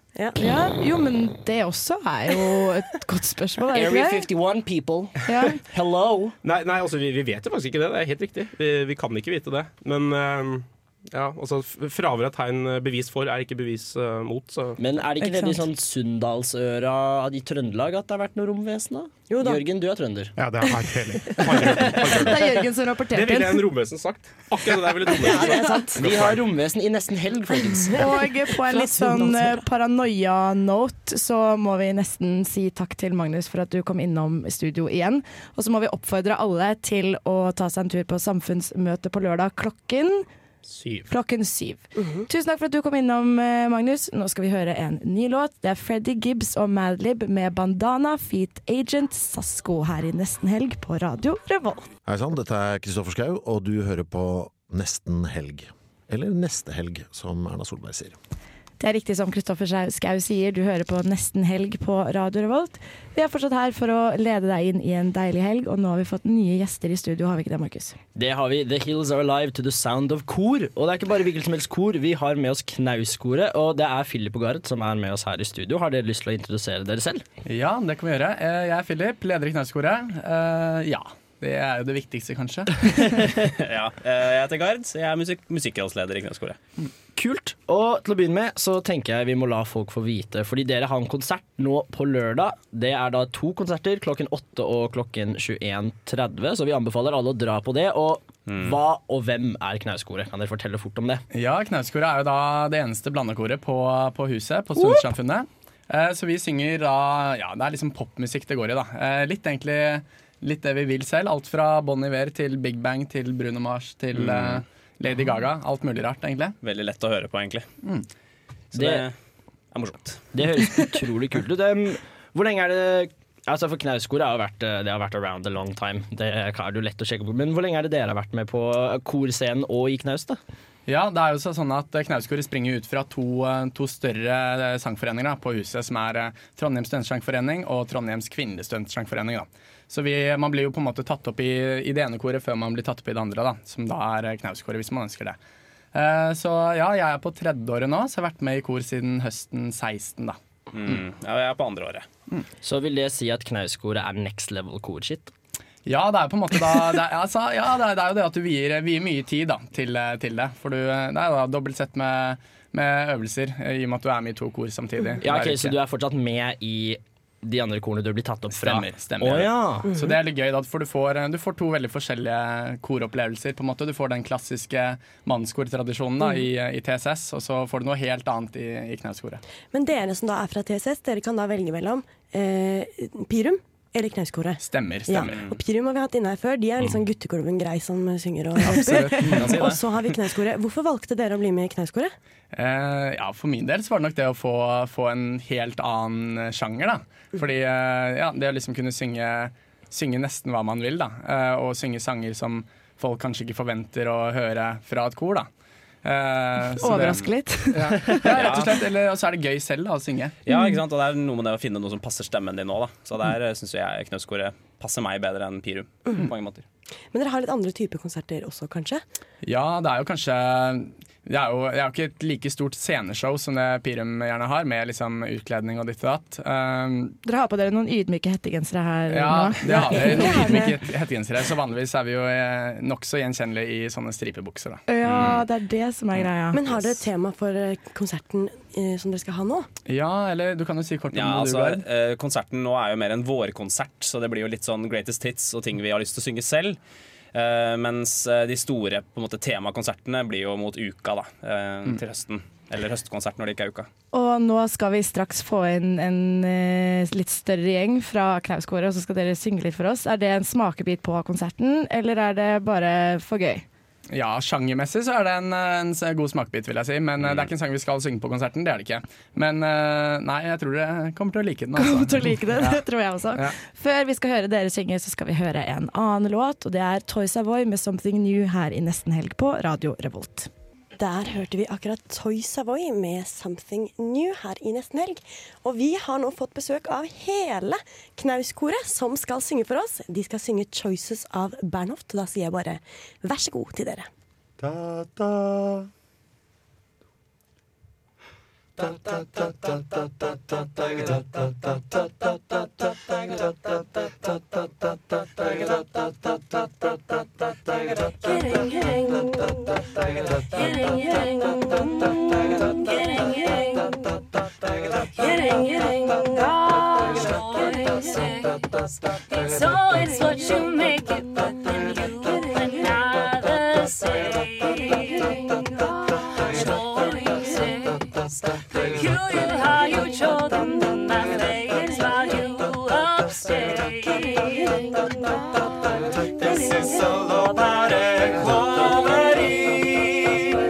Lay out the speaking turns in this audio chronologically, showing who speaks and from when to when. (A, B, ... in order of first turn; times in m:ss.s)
0:00.4-0:04.2 A
0:03.7-0:06.4 B
0:05.2-0:05.6 A
0:06.4-0:14.8 C
0:14.8-0:20.3 B
0:15.2-0:15.6 A
0:19.3-0:19.6 D
0:20.4-0:22.4 E
0:22.0-0:23.7 A
0:23.1-0:26.4 C
0:25.1-0:26.2 D
0:26.0-0:28.1 B
0:27.6-0:29.6 D
0:28.0-0:40.3 A
0:40.6-0:41.1 C
0:41.1-0:51.9 A
0:41.9-0:42.3 D
0:52.1-0:58.1 F
0:58.8-1:08.0 A
1:08.2-1:17.2 B
1:17.4-1:23.1 G
1:23.4-1:26.6 H
1:27.1-1:41.2 B
1:38.5-1:38.8 H
1:41.3-1:56.6 G
1:54.1-1:54.6 H
1:56.6-1:57.7 H
1:58.7-1:59.0 B
1:58.7-1:59.2 H
1:59.7-2:00.3 H
2:00.3-2:10.4 B
2:10.9-2:25.4 G
2:25.9-2:31.0 G
2:30.7-2:32.1 H
2:32.6-2:35.3 B
2:35.8-2:45.8 G
2:45.2-2:49.9 B
2:48.5-2:59.4 G
2:59.7-3:12.1 D
3:04.6-3:05.4 G
3:05.2-3:05.6 H
3:08.6-3:09.7 G
3:09.3-3:09.8 H
3:12.5-3:25.5 G
3:26.0-3:30.7 G
3:26.8-3:28.3 A
3:28.2-3:28.8 H
3:30.5-3:36.6 H
3:37.1-3:39.0 D
3:39.4-3:47.2 G
3:47.2-3:50.7 A
3:49.1-3:55.3 G
3:49.7-3:50.8 D
3:54.9-3:56.6 A
3:55.0-3:55.4 H
3:56.5-3:59.7 D
3:59.9-4:01.8 G
4:01.1-4:06.8 H
4:07.3-4:13.9 H
4:14.1-4:23.6 A
4:24.1-4:32.8 G
4:27.2-4:27.5 H
4:31.8-4:40.5 A
4:41.0-4:54.1 D
5:08.2-5:09.4 I
5:10.5-5:11.8 I
5:12.6-5:14.0 I
5:15.2-5:25.8 I
5:26.4-5:34.9 I
5:36.4-5:37.6 I
5:38.4-5:39.7 I